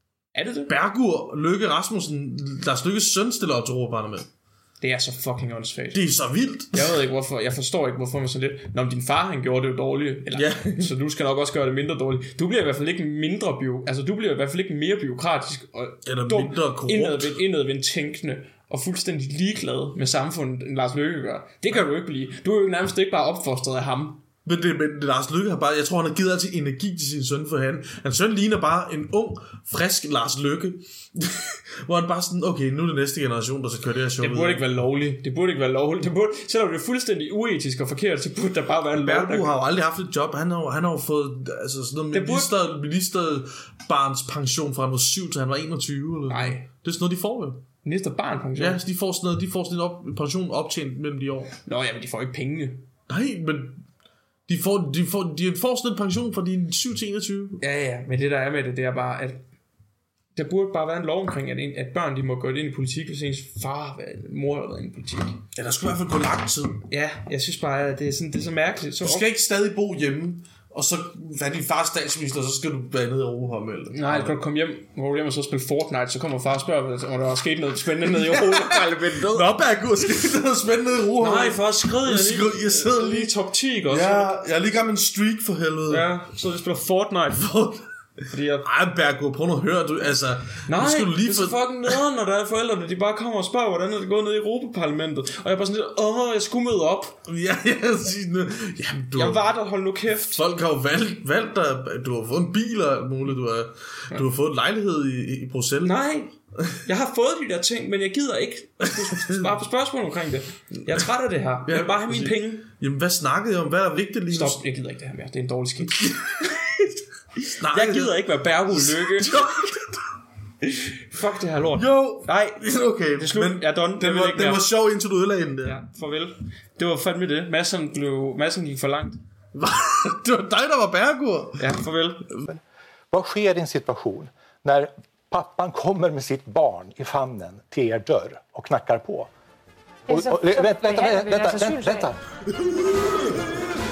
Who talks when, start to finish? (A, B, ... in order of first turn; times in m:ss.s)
0:00.4-0:00.7 A
0:00.7-0:04.3 B
0:04.8-0:06.1 A
0:05.9-0:07.0 B
0:06.7-0:24.2 A
0:10.3-0:10.9 B
0:16.0-0:17.4 B
0:24.4-0:34.6 B
0:34.2-0:39.5 A
0:39.0-0:47.6 B
0:42.1-0:42.5 A
0:46.3-0:46.7 A
0:47.8-0:48.8 A
0:48.6-0:51.6 B
0:51.7-0:52.9 A
0:53.1-0:53.8 B
0:54.5-0:57.6 B
0:57.6-0:59.4 A
1:00.4-1:05.4 A
1:05.5-1:06.8 B
1:06.9-1:09.3 A
1:09.0-1:14.4 B
1:13.9-1:19.5 A
1:18.1-1:23.3 B
1:21.2-1:24.4 A
1:23.9-1:26.1 B
1:25.9-1:27.6 A
1:27.4-1:27.8 B
1:28.3-1:28.7 A
1:28.6-1:32.0 B
1:30.7-1:37.2 A
1:37.3-1:39.5 B
1:39.2-1:40.4 A
1:40.3-1:46.0 B
1:45.8-1:52.7 A
1:49.0-1:49.5 B
1:51.7-1:54.6 B
1:54.3-1:59.8 A
1:57.6-2:00.0 B
2:00.6-2:02.6 A
2:01.7-2:05.8 B
2:03.2-2:04.7 A
2:05.6-2:09.2 A
2:09.5-2:11.8 B
2:11.6-2:12.3 A
2:13.1-2:19.3 C
2:20.1-2:22.2 C